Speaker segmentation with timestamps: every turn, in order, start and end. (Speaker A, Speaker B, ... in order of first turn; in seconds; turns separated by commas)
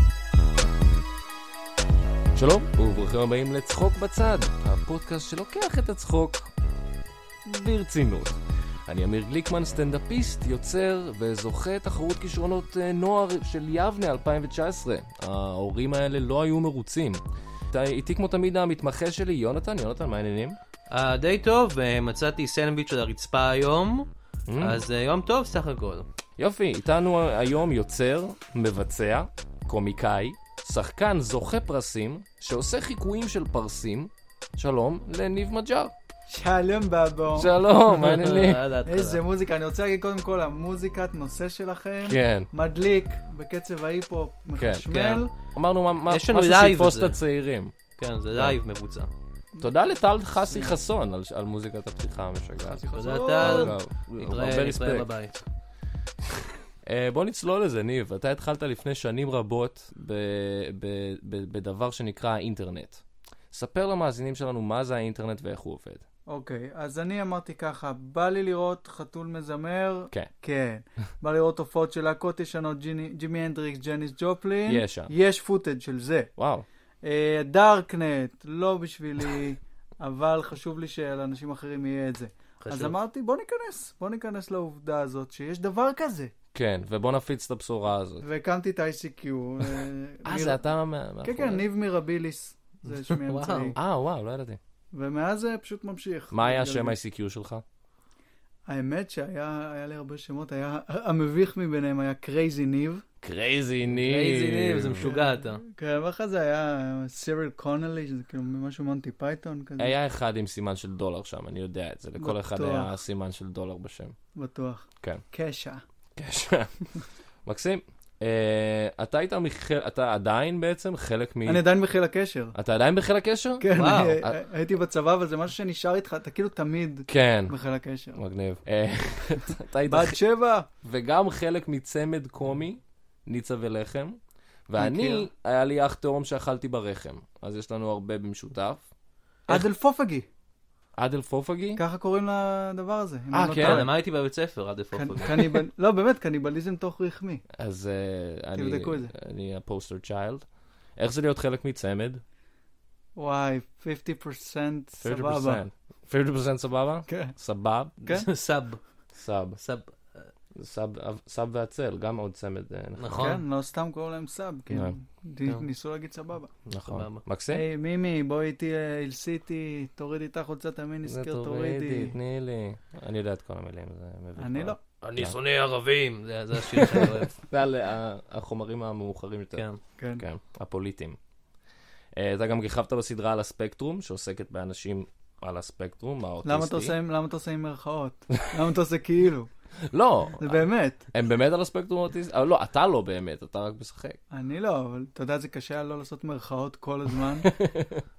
Speaker A: 2.4-6.5, Speaker A: 7.5-20.6, Speaker B: 20.9-26.1, Speaker A: 24.5-24.8, Speaker A: 26.4-35.9, Speaker C: 36.3-37.5, Speaker A: 37.4-38.6, Speaker B: 37.9-39.2, Speaker C: 38.9-45.3, Speaker A: 42.0-42.5, Speaker A: 44.6-47.8, Speaker B: 46.1-47.2, Speaker B: 48.0-49.1, Speaker A: 49.6-52.8, Speaker C: 50.5-50.8, Speaker C: 52.6-53.8, Speaker B: 52.9-55.3, Speaker A: 53.4-55.3, Speaker A: 56.8-66.0, Speaker C: 66.3-76.3, Speaker A: 74.7-75.1, Speaker A: 76.4-76.7, Speaker C: 77.0-86.3, Speaker B: 82.6-82.9, Speaker A: 86.5-88.2, Speaker C: 88.2-90.6, Speaker A: 90.2-91.7, Speaker C: 91.2-93.8, Speaker B: 93.0-93.8, Speaker A: 93.8-94.6, Speaker C: 94.9-97.0, Speaker A: 96.3-97.6, Speaker C: 98.7-103.0, Speaker A: 103.2-105.1, Speaker B: 104.0-105.6, Speaker C: 105.0-110.0, Speaker A: 109.8-114.2, Speaker C: 112.2-112.9, Speaker C: 114.3-115.8, Speaker A: 116.2-121.7, Speaker C: 121.5-122.5, Speaker A: 122.5-124.4, Speaker C: 123.6-128.2, Speaker B: 123.7-124.2, Speaker A: 127.1-127.6, Speaker A: 128.2-130.2, Speaker C: 129.9-130.7, Speaker A: 130.8-134.2, Speaker A: 134.7-138.8, Speaker C: 134.8-135.3, Speaker C: 139.5-140.3, Speaker A: 141.0-141.8, Speaker C: 141.8-143.9, Speaker A: 143.3-143.9, Speaker B: 143.6-145.6, Speaker C: 144.9-147.4, Speaker A: 147.5-150.4, Speaker C: 148.6-149.1, Speaker A: 151.0-152.2, Speaker C: 153.2-155.6, Speaker A: 155.0-158.1, Speaker C: 157.1-157.3, Speaker B: 158.1-158.8, Speaker A: 159.1-159.6, Speaker B: 159.6-160.3, Speaker A: 160.6-163.4, Speaker B: 163.0-163.4, Speaker C: 163.2-166.5, Speaker A: 166.7-167.7, Speaker B: 166.9-167.2, Speaker C: 167.5-172.2, Speaker A: 171.1-175.4, Speaker C: 174.4-174.8, Speaker B: 175.0-177.3, Speaker A: 176.7-181.2, Speaker C: 180.0-180.2, Speaker A: 182.2-186.9, Speaker C: 186.4-189.5, Speaker A: 189.8-194.2, Speaker C: 190.4-191.1, Speaker C: 194.3-197.5, Speaker A: 197.4-198.0